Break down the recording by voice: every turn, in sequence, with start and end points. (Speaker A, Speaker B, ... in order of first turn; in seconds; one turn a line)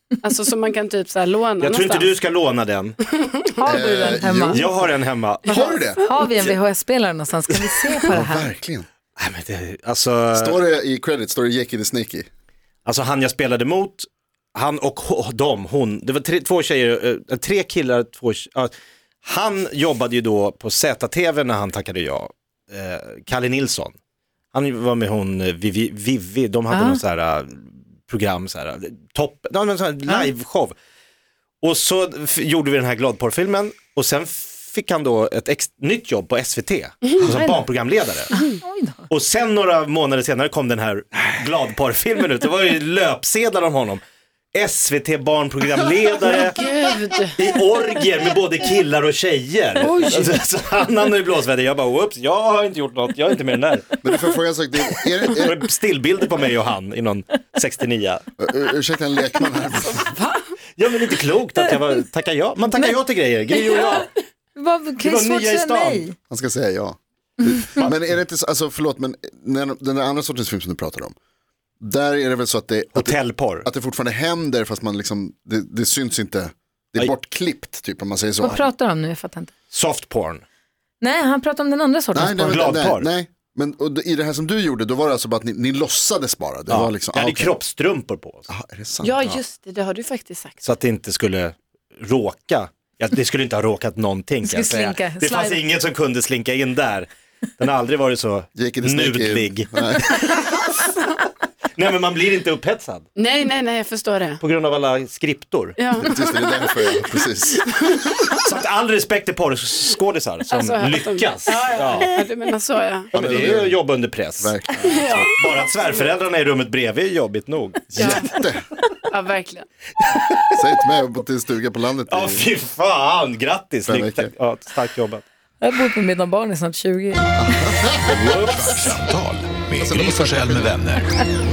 Speaker A: 0.2-2.1
Speaker B: 1.6-3.1
Speaker A: 3.1-3.4
Speaker C: 3.5-5.0
Speaker D: 3.7-4.7
Speaker B: 4.5-5.5
Speaker D: 5.5-6.1
Speaker C: 5.5-8.5
Speaker D: 8.1-8.9
Speaker B: 9.2-10.6
Speaker D: 10.3-12.3
Speaker B: 12.8-24.0
Speaker B: 24.5-30.8
Speaker C: 26.7-27.0
Speaker B: 31.6-38.3
Speaker C: 37.2-37.6
Speaker C: 38.3-39.1
Speaker B: 39.1-44.0
Speaker B: 44.5-46.6
Speaker A: 46.2-47.4
Speaker B: 47.4-54.0
Speaker A: 49.8-50.4
Speaker D: 54.0-55.7
Speaker B: 55.4-58.2
Speaker D: 58.4-60.1
Speaker A: 60.0-60.5
Speaker B: 60.8-64.1
Speaker C: 64.5-66.2
Speaker B: 65.0-66.0
Speaker D: 66.3-71.2
Speaker C: 67.4-67.9
Speaker D: 71.8-78.7
Speaker B: 72.9-73.7
Speaker C: 78.4-79.5
Speaker B: 79.7-80.4
Speaker C: 81.0-82.7
Speaker D: 82.1-87.6
Speaker B: 82.4-83.1
Speaker B: 86.7-88.5
Speaker D: 88.5-89.2
Speaker A: 89.0-90.6
Speaker B: 90.6-100.6
Speaker C: 94.4-95.6
Speaker D: 98.6-100.1
Speaker B: 101.8-103.1
Speaker A: 103.2-104.4
Speaker B: 104.4-105.9
Speaker A: 105.8-106.8
Speaker D: 106.0-107.7
Speaker A: 107.5-108.3
Speaker B: 108.3-112.2
Speaker A: 110.5-113.1
Speaker B: 113.1-118.2
Speaker D: 113.1-113.8
Speaker D: 114.4-115.2
Speaker A: 114.8-116.1
Speaker D: 117.9-118.7
Speaker A: 118.0-118.3
Speaker A: 119.1-119.7
Speaker B: 120.2-120.5
Speaker D: 120.5-122.5
Speaker B: 122.1-125.2
Speaker D: 123.9-124.3
Speaker C: 125.6-127.8
Speaker D: 127.4-128.3
Speaker B: 128.1-128.8
Speaker E: 128.2-131.2
Speaker D: 129.8-130.7